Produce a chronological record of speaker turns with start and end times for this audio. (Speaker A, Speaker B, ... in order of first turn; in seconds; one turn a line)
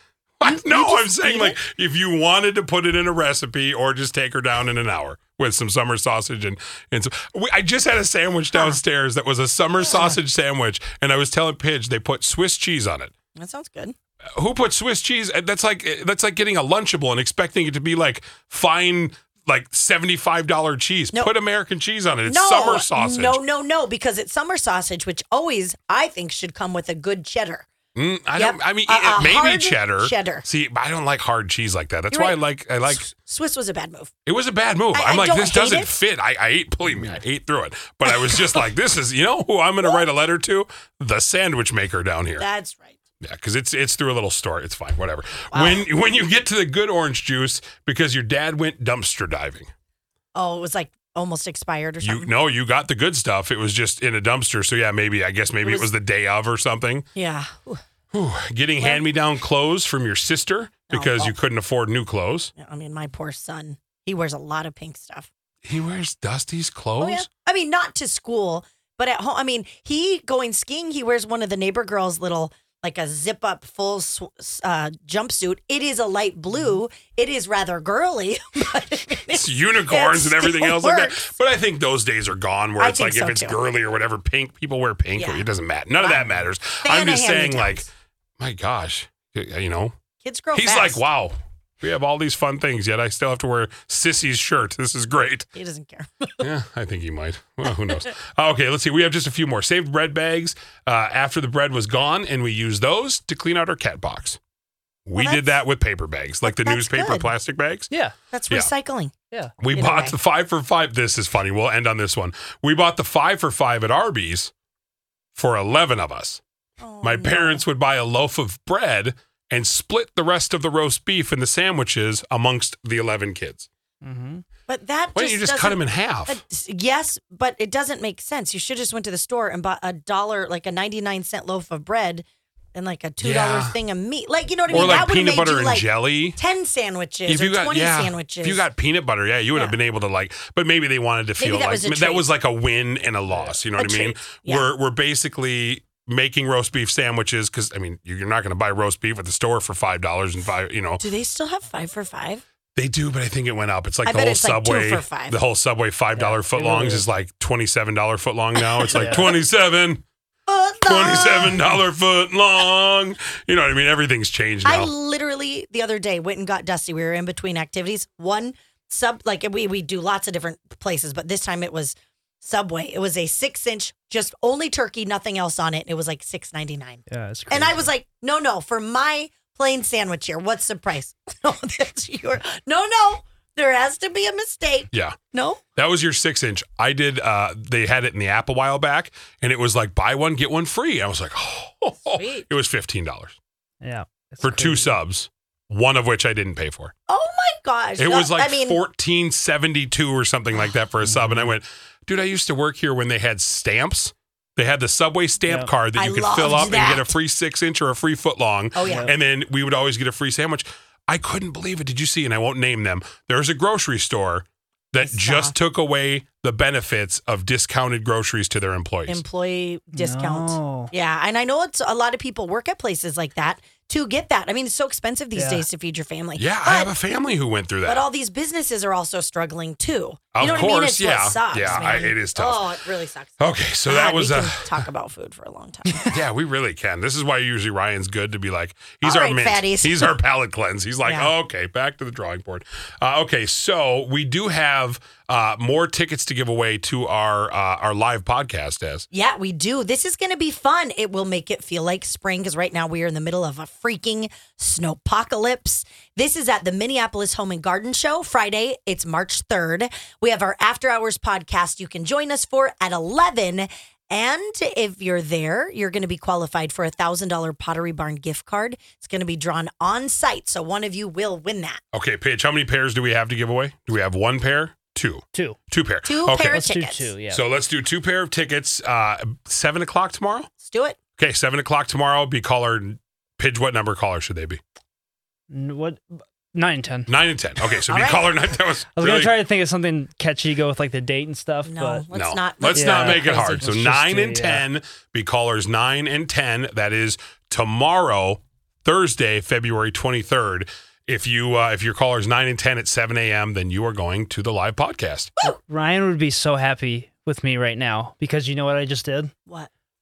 Speaker A: 0.4-13.1
Speaker B: 0.4-1.6
Speaker B: 8.5-8.8
Speaker B: 9.8-10.2
Speaker B: 13.3-13.9
Speaker A: 14.3-23.4
Speaker B: 22.2-27.6
Speaker A: 27.9-33.1
Speaker B: 28.4-30.4
Speaker B: 32.1-34.1
Speaker A: 34.2-42.4
Speaker B: 34.9-35.9
Speaker B: 42.4-42.9
Speaker A: 43.2-49.7
Speaker B: 45.5-45.9
Speaker B: 50.3-52.3
Speaker A: 52.0-57.1
Speaker B: 55.6-55.9
Speaker B: 57.1-57.8
Speaker A: 58.1-62.5
Speaker B: 58.8-59.0
Speaker B: 60.9-61.4
Speaker B: 62.6-65.3
Speaker A: 65.6-67.2
Speaker B: 67.0-81.3
Speaker A: 79.3-90.0
Speaker B: 82.8-83.6
Speaker B: 85.2-85.5
Speaker B: 86.0-87.8
Speaker B: 90.2-91.0
Speaker A: 90.5-95.5
Speaker B: 95.5-96.5
Speaker A: 96.4-104.4
Speaker A: 105.1-107.9
Speaker B: 105.2-105.6
Speaker B: 106.4-107.3
Speaker C: 107.9-108.2
Speaker B: 108.3-109.1
Speaker A: 109.6-114.5
Speaker B: 109.7-110.2
Speaker A: 115.3-116.4
Speaker B: 116.8-117.6
Speaker A: 117.0-123.7
Speaker C: 124.0-124.4
Speaker B: 124.7-138.7
Speaker A: 125.1-126.4
Speaker A: 133.2-133.8
Speaker A: 134.7-136.4
Speaker C: 134.7-135.1
Speaker A: 137.2-151.1
Speaker B: 139.5-139.8
Speaker B: 141.4-142.3
Speaker B: 143.7-144.7
Speaker B: 151.0-152.4
Speaker A: 152.8-160.0
Speaker B: 154.0-155.4
Speaker C: 156.1-157.1
Speaker B: 158.8-159.3
Speaker C: 158.9-159.4
Speaker B: 160.5-161.6
Speaker A: 160.9-164.9
Speaker B: 164.6-185.6
Speaker C: 177.1-177.9
Speaker A: 184.9-185.2
Speaker A: 185.8-193.4
Speaker B: 192.1-192.5
Speaker C: 193.8-195.0
Speaker A: 194.4-196.9
Speaker B: 197.1-198.8
Speaker A: 198.0-219.2
Speaker C: 201.0-201.5
Speaker C: 205.4-205.7
Speaker B: 205.9-207.1
Speaker B: 208.7-209.1
Speaker C: 208.8-209.1
Speaker B: 215.0-215.5
Speaker B: 219.1-226.9
Speaker C: 219.9-220.9
Speaker C: 225.3-225.7
Speaker A: 226.4-228.0
Speaker B: 227.8-236.2
Speaker A: 230.3-232.7
Speaker C: 230.4-230.7
Speaker C: 231.5-232.0
Speaker A: 233.4-234.8
Speaker A: 236.0-249.1
Speaker B: 239.0-240.1
Speaker B: 241.0-241.3
Speaker B: 249.1-271.8
Speaker A: 271.9-276.7
Speaker C: 275.3-275.6
Speaker B: 276.0-277.1
Speaker C: 276.4-277.4
Speaker A: 277.3-280.5
Speaker B: 280.6-281.0
Speaker A: 281.2-284.6
Speaker C: 285.5-287.2
Speaker A: 287.1-289.4
Speaker B: 287.9-288.5
Speaker C: 288.9-292.1
Speaker B: 291.6-293.6
Speaker A: 292.1-305.3
Speaker C: 292.7-294.7
Speaker C: 305.7-309.3